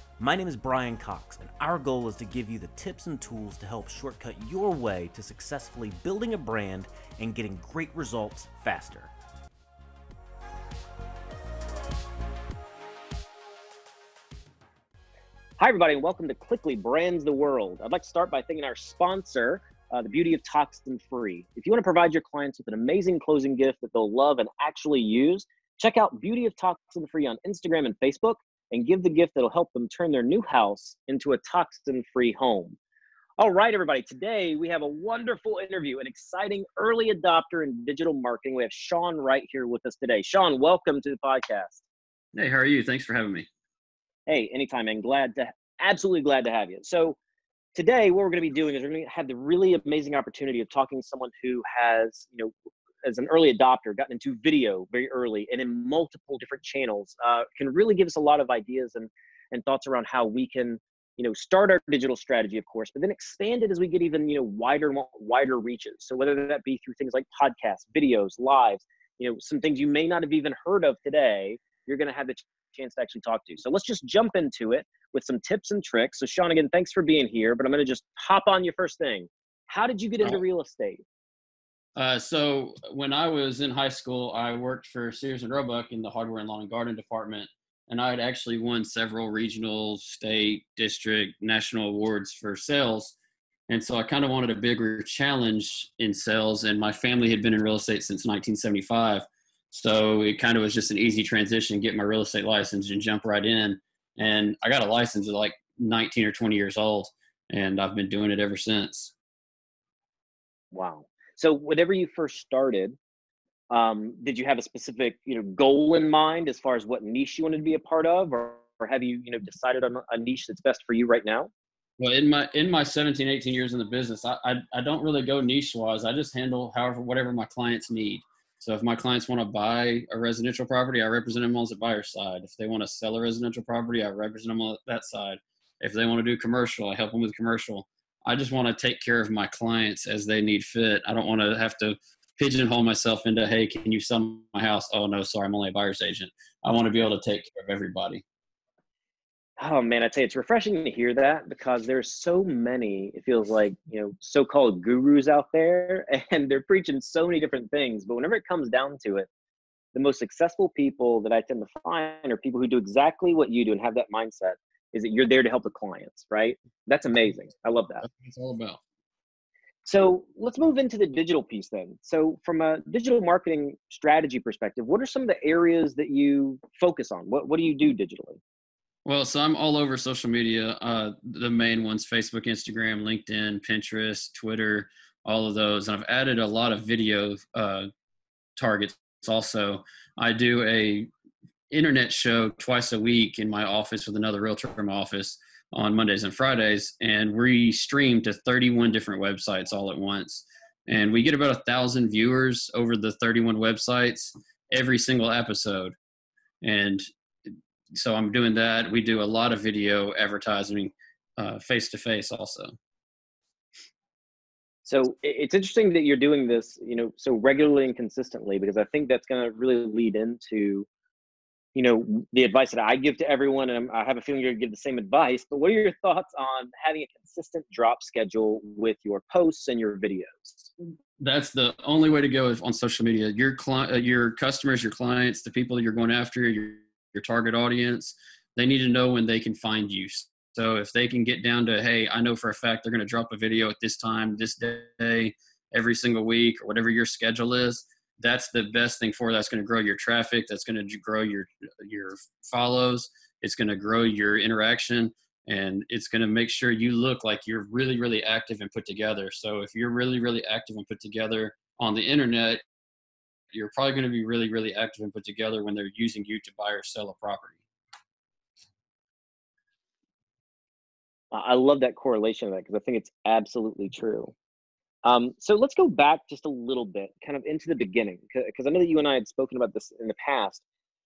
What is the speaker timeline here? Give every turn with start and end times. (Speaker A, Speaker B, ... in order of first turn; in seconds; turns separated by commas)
Speaker A: 0.2-9.1, Speaker B: 15.6-32.8, Speaker B: 33.4-41.8, Speaker C: 42.3-43.5, Speaker B: 44.3-47.2, Speaker B: 47.7-81.0, Speaker C: 82.0-93.2, Speaker C: 93.7-109.1, Speaker B: 110.7-113.0, Speaker B: 113.7-121.5, Speaker C: 122.0-148.2, Speaker B: 149.6-159.3, Speaker B: 159.9-168.0, Speaker C: 168.0-168.8, Speaker B: 169.8-178.4, Speaker C: 179.0-187.9, Speaker C: 188.6-191.1, Speaker C: 191.7-206.0, Speaker C: 206.6-212.7, Speaker B: 214.8-220.9, Speaker B: 221.7-230.7, Speaker C: 231.2-262.6, Speaker C: 263.5-267.6, Speaker B: 271.3-274.3, Speaker B: 275.0-280.6